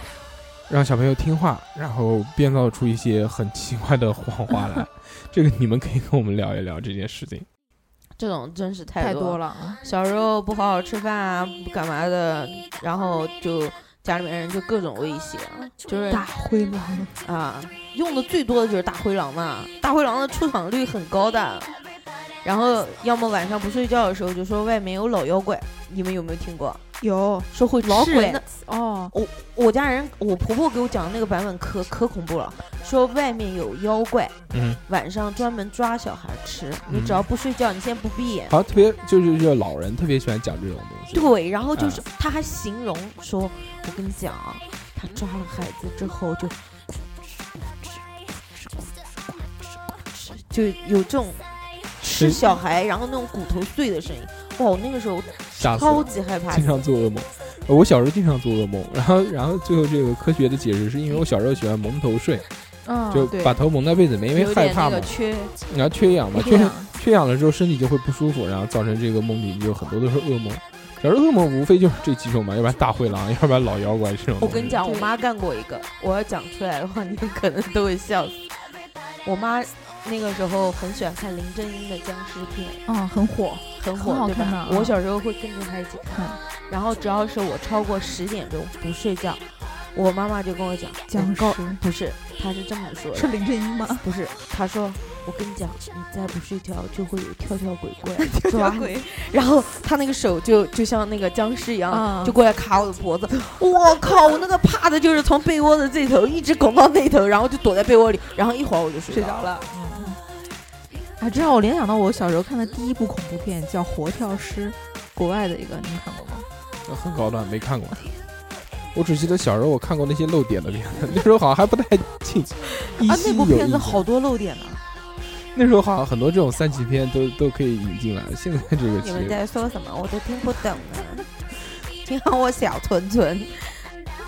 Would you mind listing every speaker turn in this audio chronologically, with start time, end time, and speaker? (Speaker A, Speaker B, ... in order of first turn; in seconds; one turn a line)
Speaker A: 0.7-7.5
Speaker B: 8.2-16.3
Speaker C: 9.0-9.8
Speaker C: 16.1-17.1
Speaker B: 17.2-21.8
Speaker B: 22.4-26.8
Speaker C: 27.0-29.1
Speaker B: 27.5-28.4
Speaker B: 29.1-38.5
Speaker A: 34.5-34.8
Speaker A: 36.9-37.2
Speaker A: 38.5-42.0
Speaker B: 41.1-46.6
Speaker B: 48.5-48.9
Speaker B: 50.1-51.4
Speaker B: 52.0-56.9
Speaker A: 52.1-52.5
Speaker A: 55.6-62.5
Speaker C: 62.8-63.6
Speaker A: 63.1-74.8
Speaker B: 64.3-65.5
Speaker C: 66.3-66.9
Speaker B: 74.4-78.5
Speaker C: 74.8-75.1
Speaker B: 79.2-82.8
Speaker C: 82.8-85.0
Speaker B: 83.8-93.4
Speaker C: 86.1-86.4
Speaker C: 91.1-91.8
Speaker C: 93.1-94.1
Speaker B: 94.0-109.5
Speaker C: 98.2-99.1
Speaker C: 101.9-102.4
Speaker C: 109.1-110.2
Speaker C: 111.2-116.5
Speaker A: 116.8-118.1
Speaker A: 118.9-124.0
Speaker C: 123.0-124.8
Speaker A: 125.5-129.4
Speaker B: 129.0-131.3
Speaker B: 132.0-133.8